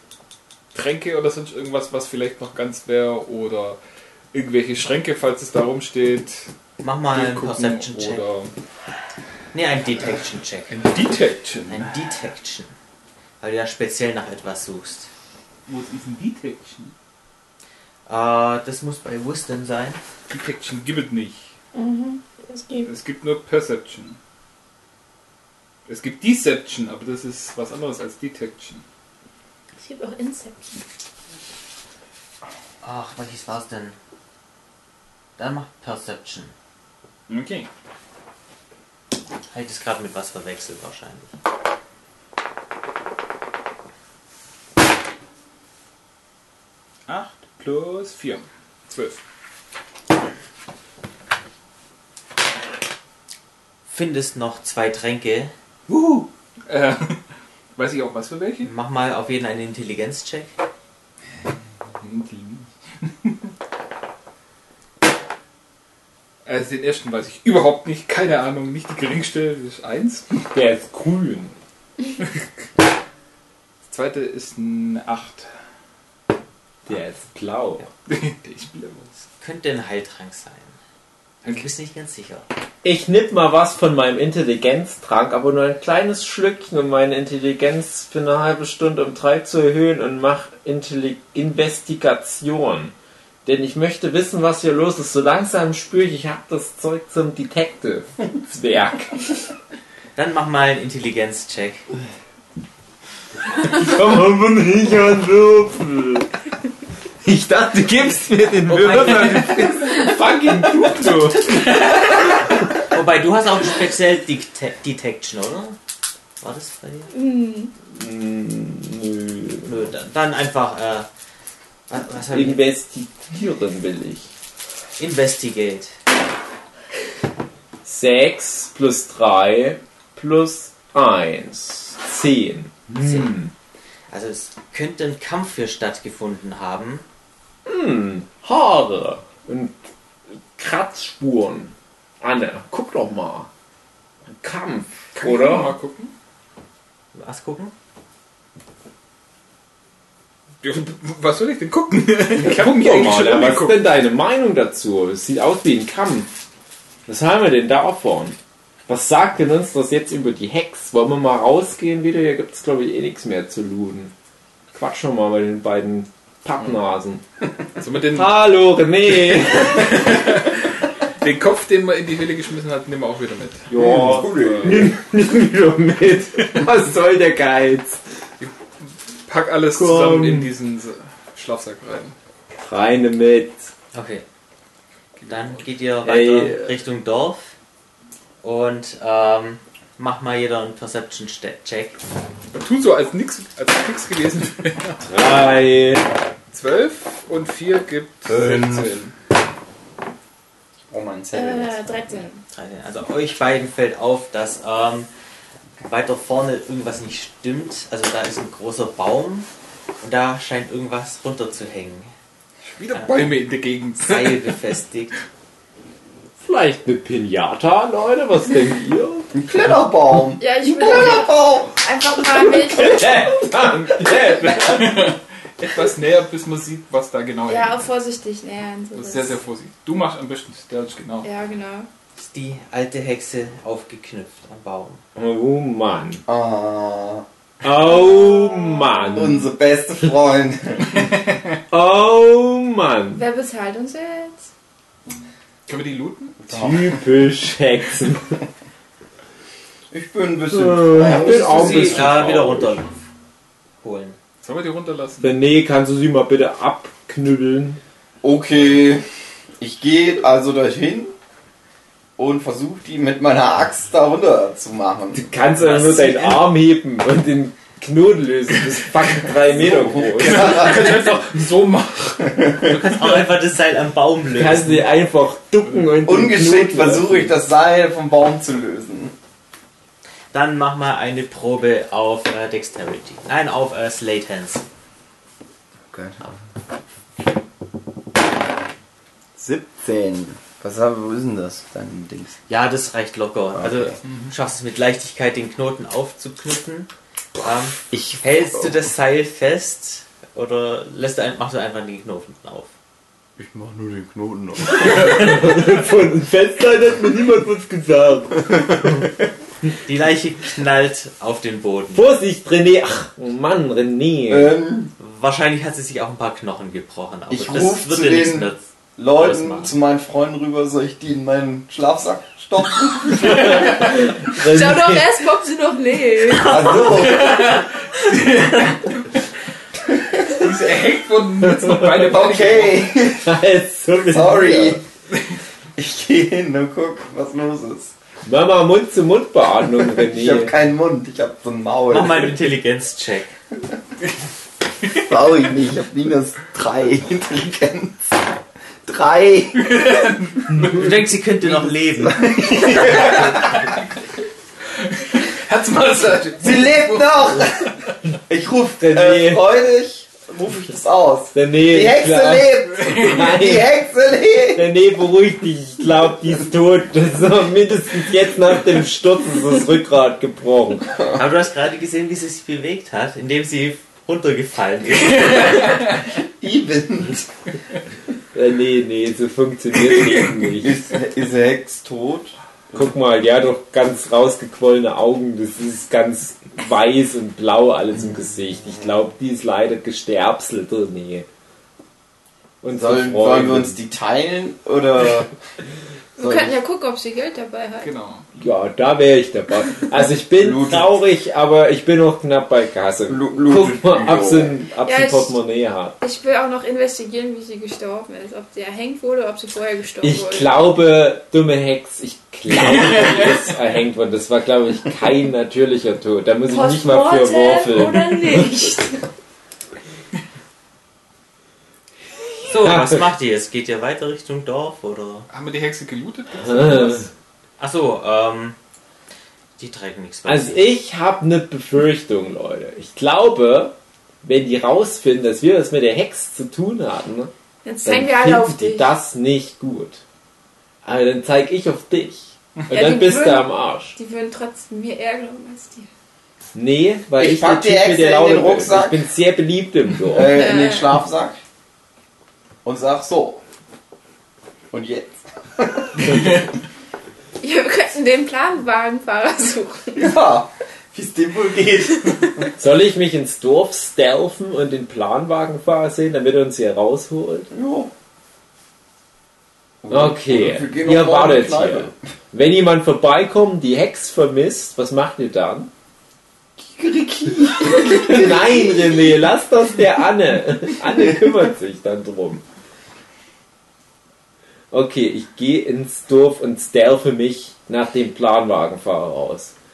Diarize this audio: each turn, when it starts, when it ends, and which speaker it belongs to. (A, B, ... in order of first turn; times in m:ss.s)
0:00.7-0:03.8 A
0:04.3-0:06.5 A
0:06.8-0:08.2 B
0:07.1-0:08.5 A
0:09.5-0:10.8 B
0:10.7-0:11.9 A
0:11.7-0:12.7 B
0:13.4-0:15.1 B
0:15.7-0:16.9 A
0:18.1-0:20.0 B
0:20.3-0:21.5 A
0:21.7-0:22.9 C
0:22.8-0:24.2 A
0:25.8-0:28.8 A
0:29.8-0:30.8 C
0:32.8-0:34.0 B
0:35.4-0:36.5 B
0:37.3-0:37.7 A
0:39.5-0:41.3 B
0:47.1-0:49.2 A
0:53.9-0:55.5 B
0:55.9-0:57.2 A
0:57.8-0:58.7 A
0:58.6-1:00.5 B
1:02.0-1:03.3 A
1:06.4-1:10.4 A
1:10.5-1:11.6 D
1:12.2-1:12.4 A
1:13.8-1:15.5 A
1:16.8-1:17.9 D
1:18.0-1:19.1 A
1:19.4-1:20.8 B
1:21.4-1:22.4 B
1:22.8-1:32.9 D
1:33.4-1:39.3 D
1:40.2-1:41.8 B
1:43.5-1:46.3 D
1:47.2-1:51.6 D
1:48.7-1:49.8 B
1:51.7-1:55.8 B
1:56.4-1:57.1 B
1:57.1-1:57.7 C
1:57.9-1:59.7 D
1:59.6-2:01.1 B
2:01.9-2:02.7 B
2:02.3-2:04.3 D
2:05.0-2:06.0 B
2:07.8-2:13.5 D
2:13.0-2:13.3 B
2:14.1-2:17.0 B
2:17.6-2:19.8 D
2:20.6-2:23.5 D
2:24.3-2:25.8 D
2:25.2-2:26.1 A
2:27.1-2:27.7 B
2:30.6-2:33.8 A
2:32.4-2:36.3 D
2:37.0-2:44.1 D
2:44.7-2:47.2 D
2:47.8-2:48.4 A
2:48.1-2:50.3 D
2:49.2-2:54.8 A
2:53.7-2:58.0 D
2:53.7-2:54.9 E
2:58.4-3:02.1 A
2:59.7-3:00.5 D
3:02.6-3:03.7 D
3:03.9-3:04.2 B
3:05.2-3:05.7 A
3:05.3-3:07.5 B
3:06.0-3:06.8 D
3:08.4-3:12.0 B
3:12.5-3:15.0 A
3:15.0-3:16.1 D
3:16.5-3:19.1 A
3:18.3-3:18.9 E
3:20.9-3:22.2 E
3:21.3-3:22.4 C
3:22.5-3:25.1 B
3:25.8-3:29.5 B
3:30.0-3:32.1 B
3:32.8-3:34.7 A
3:32.9-3:33.3 B
3:33.0-3:33.3 E
3:34.0-3:35.2 B
3:36.4-3:39.3 D
3:39.3-3:41.7 E
3:40.4-3:43.0 C
3:42.7-3:45.1 D
3:42.9-3:43.3 E
3:44.7-3:47.8 A
3:47.4-3:49.4 C
3:48.9-3:51.3 A
3:51.2-3:51.9 C
3:52.2-3:55.0 B
3:55.2-3:56.2 D
3:56.3-3:57.2 E
3:57.6-3:59.4 D
3:58.2-3:59.3 C
3:59.1-4:01.2 E
4:01.0-4:01.3 A
4:01.7-4:03.2 D
4:03.1-4:04.5 C
4:05.7-4:06.4 A
4:06.4-4:07.0 E
4:06.5-4:08.3 D
4:09.9-4:12.1 E
4:10.5-4:12.7 D
4:11.2-4:13.0 B
4:13.8-4:14.2 B
4:14.4-4:15.3 A
4:15.2-4:17.8 D
4:18.2-4:19.0 E
4:19.6-4:21.1 E
4:22.2-4:25.3 E
4:25.1-4:31.0 D
4:25.6-4:26.5 B
4:29.4-4:31.1 E
4:30.0-4:33.3 A
4:32.2-4:32.7 E
4:32.6-4:34.9 B
4:34.3-4:37.4 D
4:36.0-4:39.1 E
4:40.3-4:44.6 B
4:45.9-4:46.4 E
4:49.4-4:52.4 E
4:52.5-4:56.9 B
4:53.6-4:54.0 E
4:54.0-4:54.3 A
4:57.4-5:02.7 B
4:57.9-4:58.8 E
5:03.4-5:05.5 E
5:04.8-5:09.1 D
5:09.8-5:12.0 B
5:11.9-5:14.6 D
5:14.3-5:14.9 E
5:15.0-5:18.6 B
5:17.3-5:24.1 E
5:19.1-5:19.8 B
5:23.3-5:25.2 D
5:24.4-5:26.8 C
5:26.3-5:27.7 E
5:26.9-5:29.0 A
5:29.9-5:30.5 E
5:30.3-5:32.9 A
5:31.6-5:32.1 D
5:32.0-5:33.4 E
5:33.1-5:34.8 D
5:33.9-5:34.8 E
5:35.8-5:37.9 E
5:38.2-5:40.5 D
5:39.7-5:42.4 E
5:41.9-5:43.4 B
5:44.8-5:48.1 E
5:48.8-5:50.0 E
5:49.6-5:50.6 A
5:50.5-5:51.0 D
5:50.7-5:52.8 B
5:51.4-5:53.8 E
5:52.8-5:53.8 A
5:54.8-5:57.9 A
5:56.4-5:57.7 E
5:58.3-6:04.6 E
5:58.8-5:59.4 D
6:01.3-6:03.7 D
6:02.7-6:03.3 A
6:04.5-6:10.9 D
6:11.0-6:11.2 E
6:11.1-6:15.9 B
6:15.2-6:16.0 A
6:16.4-6:17.3 E
6:18.3-6:20.8 D
6:20.5-6:22.9 E
6:22.7-6:31.3 D
6:32.6-6:33.8 D
6:32.7-6:35.3 E
6:36.2-6:37.9 C
6:36.2-6:36.6 E
6:37.8-6:38.3 A
6:38.4-6:45.9 D
6:40.4-6:41.0 E
6:43.1-6:44.6 E
6:44.8-6:45.4 C
6:46.0-6:50.5 C
6:50.0-6:58.6 D
6:56.5-6:59.0 C
7:02.5-7:05.3 B
7:02.6-7:03.1 D
7:05.3-7:07.1 A
7:06.4-7:07.1 D
7:07.6-7:08.6 B
7:09.6-7:10.6 B
7:10.2-7:17.3 D
7:17.6-7:18.9 C
7:17.8-7:20.0 D
7:20.8-7:23.9 D
7:22.7-7:25.9 C
7:26.6-7:30.5 D
7:27.2-7:29.0 E
7:30.1-7:31.4 E
7:30.3-7:30.9 C
7:32.6-7:33.4 E
7:34.7-7:36.4 E
7:37.4-7:40.1 C
7:39.9-7:42.5 E
7:42.6-7:47.5 D
7:47.5-7:47.9 E
7:49.8-7:52.0 E
7:49.9-7:55.7 D
7:56.6-7:59.0 E
7:57.6-8:02.4 D
8:04.7-8:09.5 D